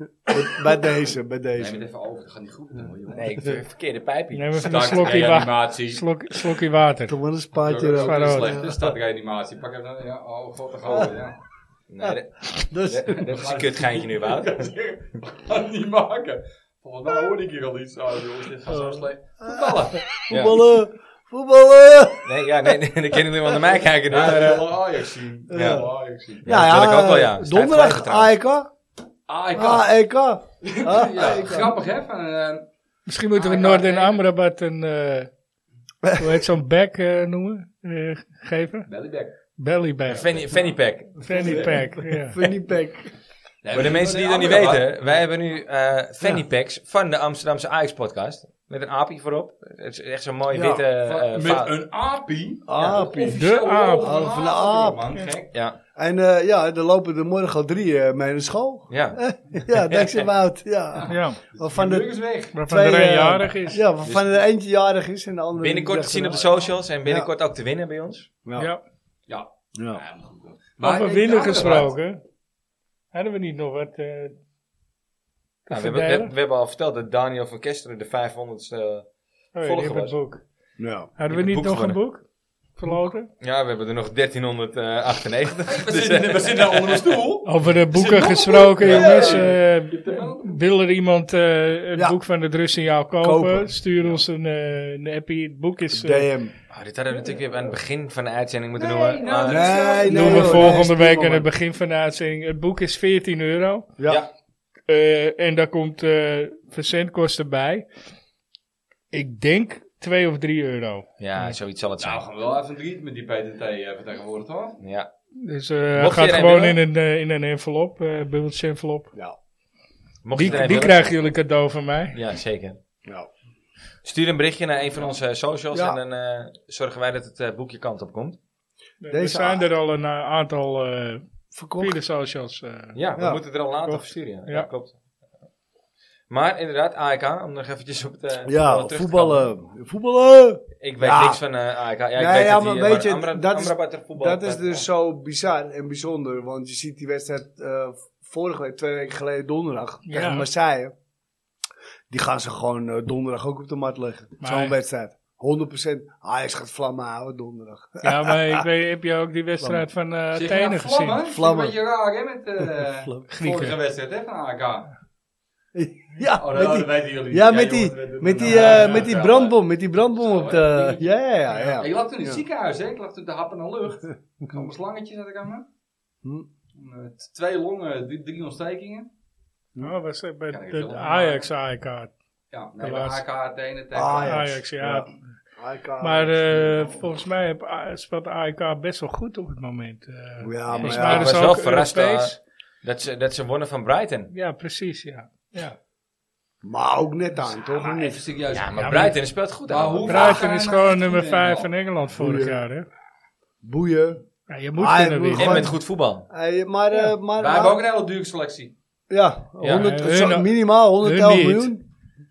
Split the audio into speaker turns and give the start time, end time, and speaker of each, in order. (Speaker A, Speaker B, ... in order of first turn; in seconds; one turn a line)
Speaker A: 0.3-1.8
Speaker B: 1.6-3.5
Speaker C: 3.1-5.4
Speaker D: 4.3-7.1
Speaker B: 4.6-6.0
Speaker A: 7.1-8.9
Speaker B: 7.6-11.4
Speaker D: 8.0-8.6
Speaker C: 11.9-14.7
Speaker A: 12.0-13.2
Speaker B: 13.1-20.1
Speaker A: 18.9-22.3
Speaker C: 20.3-20.6
Speaker C: 22.2-24.7
Speaker B: 24.1-26.5
Speaker A: 25.5-25.9
Speaker C: 25.5-25.9
Speaker C: 26.4-28.3
Speaker A: 26.4-28.7
Speaker B: 29.3-29.9
Speaker A: 29.6-31.7
Speaker B: 30.6-32.7
Speaker D: 33.1-35.3
Speaker B: 33.3-34.2
Speaker D: 36.1-38.9
Speaker B: 38.9-39.3
Speaker D: 39.6-40.4
Speaker C: 40.1-41.7
Speaker D: 41.2-42.4
Speaker A: 41.3-43.1
Speaker B: 43.6-45.1
Speaker C: 43.7-51.7
Speaker A: 50.5-50.8
Speaker B: 51.0-55.5
Speaker A: 52.7-53.4
Speaker D: 53.4-54.2
Speaker A: 54.0-55.0
Speaker A: 56.0-62.1
Speaker C: 58.9-59.2
Speaker C: 59.7-60.2
Speaker B: 60.9-62.5
Speaker D: 61.1-61.4
Speaker D: 62.5-63.8
Speaker A: 62.7-67.3
Speaker C: 64.0-64.3
Speaker C: 65.6-68.3
Speaker B: 69.3-72.0
Speaker A: 69.8-70.0
Speaker D: 70.8-72.2
Speaker D: 73.1-74.4
Speaker D: 75.7-76.3
Speaker C: 75.7-79.1
Speaker D: 79.5-80.4
Speaker C: 79.6-80.2
Speaker A: 80.8-81.1
Speaker D: 81.2-82.2
Speaker C: 81.3-82.0
Speaker D: 82.8-83.3
Speaker C: 83.4-87.2
Speaker B: 85.7-90.6
Speaker D: 87.5-96.3
Speaker C: 88.8-89.2
Speaker A: 88.9-89.4
Speaker A: 93.2-93.7
Speaker A: 95.9-96.5
Speaker C: 96.7-99.9
Speaker B: 97.1-97.5
Speaker B: 98.8-100.8
Speaker A: 99.5-101.5
Speaker D: 100.0-103.9
Speaker A: 104.0-104.2
Speaker C: 104.0-104.3
Speaker D: 104.9-107.9
Speaker D: 109.1-111.5
Speaker C: 111.2-112.2
Speaker B: 112.0-114.8
Speaker C: 114.8-115.1
Speaker D: 115.4-119.1
Speaker C: 116.0-116.8
Speaker C: 120.2-121.3
Speaker D: 120.3-122.2
Speaker C: 122.1-122.8
Speaker C: 124.0-128.4
Speaker A: 125.7-126.0
Speaker D: 129.0-131.2
Speaker A: 129.1-129.7
Speaker A: 131.5-132.0
Speaker D: 131.8-133.0
Speaker C: 132.9-134.9
Speaker D: 133.8-134.7
Speaker C: 136.3-139.5
Speaker A: 138.5-141.4
Speaker C: 140.8-144.8
Speaker A: 142.2-150.9
Speaker D: 150.1-150.5
Speaker A: 152.1-158.6
Speaker D: 154.4-154.7
Speaker D: 158.0-161.2
Speaker B: 160.3-164.9
Speaker A: 161.3-161.7
Speaker A: 162.8-163.2
Speaker D: 163.3-163.8
Speaker A: 165.7-172.4
Speaker B: 166.3-171.1
Speaker D: 168.5-169.1
Speaker B: 171.8-175.6
Speaker B: 176.7-179.1
Speaker D: 179.8-182.1
Speaker B: 180.5-181.5
Speaker B: 182.5-184.4
Speaker D: 182.8-183.2
Speaker A: 183.9-187.0
Speaker D: 184.2-185.2
Speaker D: 186.0-192.4
Speaker A: 190.4-191.4
Speaker C: 190.7-194.3
Speaker D: 194.3-195.8
Speaker A: 196.6-198.2
Speaker B: 197.6-201.7
Speaker C: 198.5-200.4
Speaker D: 198.8-199.1
Speaker D: 200.1-202.9
Speaker A: 202.2-202.6
Speaker A: 203.6-204.2
Speaker D: 204.5-205.7
Speaker A: 204.8-205.8
Speaker C: 205.3-206.3
Speaker A: 206.3-207.8
Speaker B: 207.1-208.7
Speaker A: 209.1-211.8
Speaker C: 209.6-210.0
Speaker D: 209.6-211.7